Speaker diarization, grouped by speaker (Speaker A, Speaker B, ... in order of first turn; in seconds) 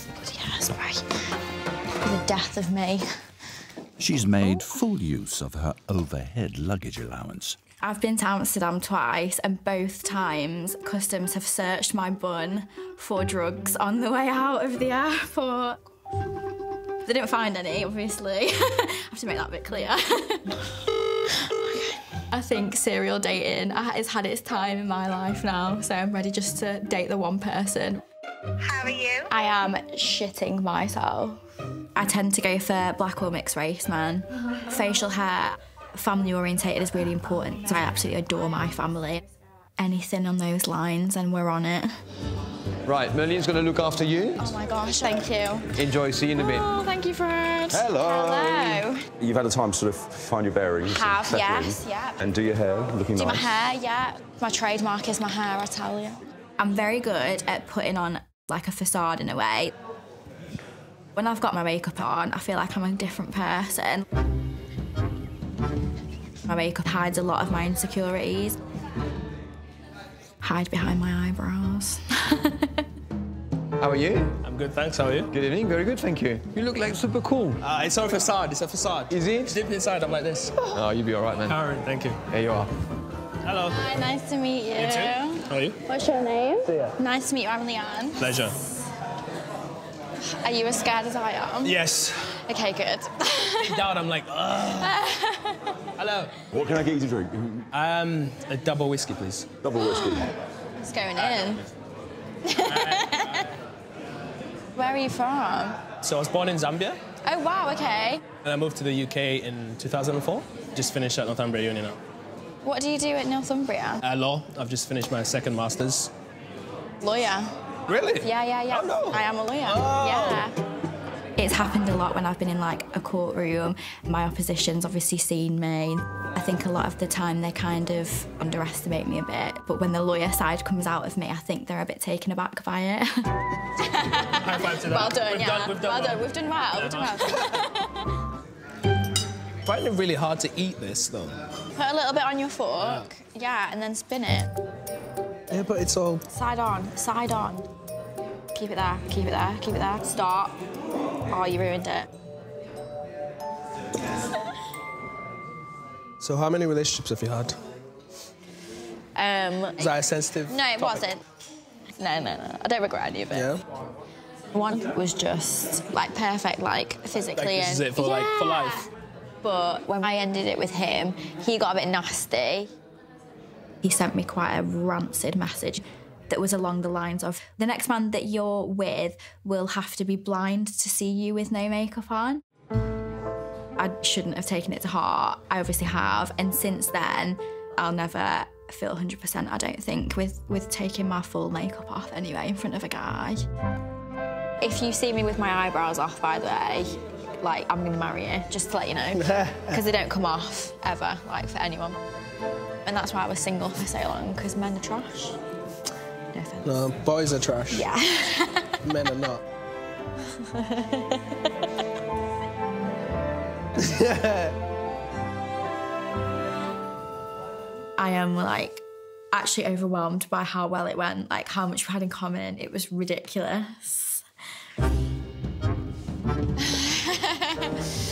Speaker A: 0.2-1.0, 2.0-3.0, 7.8-15.8, 17.0-20.6, 21.3-28.0, 28.8-31.4, 31.9-39.2, 39.8-41.9, 44.4-45.8, 46.3-49.1, 50.8-52.2, 53.1-59.7, 61.1-64.0, 66.4-68.6, 70.4-72.8, 83.7-88.4, 90.2-91.8, 92.4-93.8, 94.7-95.8, 99.8-101.6, 102.4-103.5, 104.8-105.8, 107.2-108.2, 112.6-114.0, 117.0-117.5, 118.2-120.6, 121.3-133.1, 133.8-138.1, 141.7-144.5, 146.3-147.7, 148.5-150.6, 151.3-152.1, 159.1-159.9, 160.5-161.2, 161.9-163.5, 164.5-168.9, 169.4-172.7, 173.8-182.4, 183.8-193.4, 194.6-202.0, 202.8-205.4, 206.3-206.8, 207.7-208.8, 210.4-211.2, 218.0-224.2, 226.6-227.7
Speaker B: 4.0-7.6
Speaker C: 42.8-44.5, 45.7-46.7, 47.7-48.8, 73.8-74.3, 75.3-77.6, 79.1-79.5, 80.7-81.6, 82.3-82.7
Speaker D: 49.2-53.5, 96.5-97.6, 99.6-100.3
Speaker E: 74.4-75.3, 77.6-80.6, 81.4-82.2, 83.4-83.8, 84.8-85.8, 88.2-88.5, 91.6-92.3, 93.6-95.0, 96.0-96.4, 97.7-99.5, 102.6-103.4, 106.0-107.0, 108.4-112.0, 114.0-116.1, 117.9-120.5, 134.2-137.5, 139.6-141.4, 145.5-146.2, 156.2-157.6, 159.8-161.1, 163.3-163.6, 167.3-168.8, 199.1-199.8, 206.6-207.8, 208.8-209.4, 213.8-214.5